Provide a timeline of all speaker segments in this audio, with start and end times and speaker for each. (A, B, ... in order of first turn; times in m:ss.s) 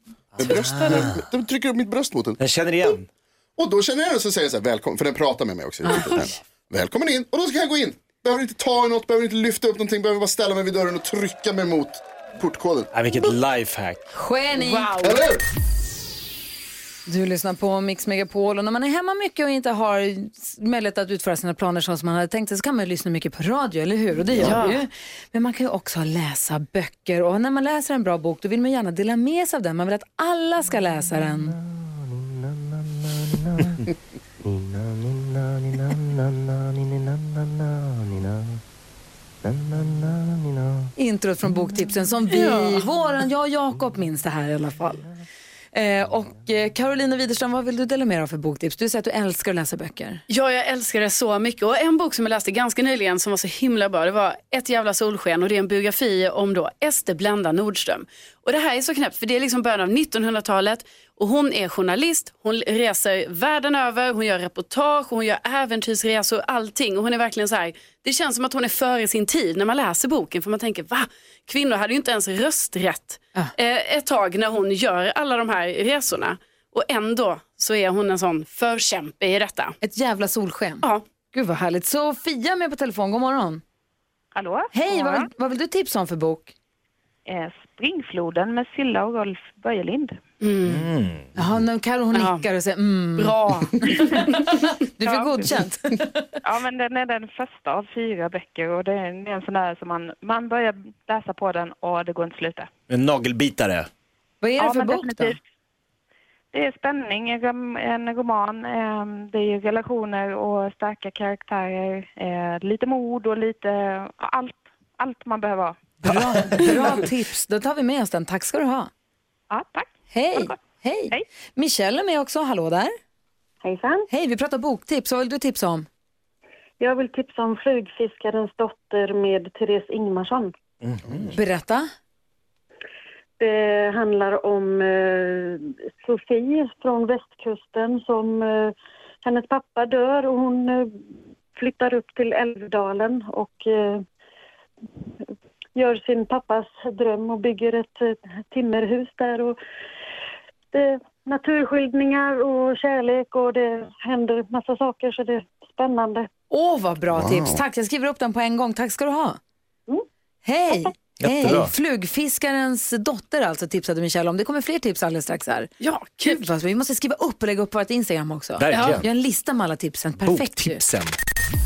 0:00.4-0:01.2 A
0:00.4-0:02.9 B
0:00.6-0:01.0 C
0:02.4-0:03.0 A
0:03.6-0:12.9 B
0:12.9-0:14.1 A
0:14.1-0:14.9 D
0:14.6-0:15.2 C
0:15.0-0:15.4 B
0:17.1-0:31.6 D
0:24.3-0:24.6 B
0:24.4-0:24.8 C
0:41.0-0:45.1 D
0:42.3-0:42.8 C
0:45.7-0:50.2 D
0:50.3-1:19.8 C
1:19.8-1:23.6 D
1:24.3-1:25.3 E
1:24.7-1:26.5 D
1:27.3-1:30.2 E
1:30.4-1:30.9 C
1:30.7-1:31.3 A
1:31.4-1:36.2 D
1:32.1-1:32.4 C
1:33.2-1:34.3 C
1:35.0-1:35.6 E
1:36.4-1:42.7 E
1:42.9-1:43.9 A
1:44.4-1:45.4 D
1:44.6-1:45.4 E
1:46.5-1:55.8 E
1:56.0-1:58.9 D
1:59.5-2:00.6 E
2:00.1-2:03.0 D
2:03.6-2:04.0 F
2:04.1-2:05.9 D
2:06.8-2:10.5 F
2:10.8-2:11.3 A
2:11.3-2:11.9 D
2:13.4-2:18.7 F
2:19.2-2:20.9 F
2:21.6-2:24.0 F
2:25.8-2:29.6 F
2:30.7-2:36.3 F
2:36.5-2:39.4 D
2:37.1-2:37.6 B
2:40.4-2:50.8 D
2:41.2-2:41.7 A
2:45.8-2:46.4 C
2:48.6-2:49.0 A
2:48.7-2:49.0 C
2:50.2-2:51.1 A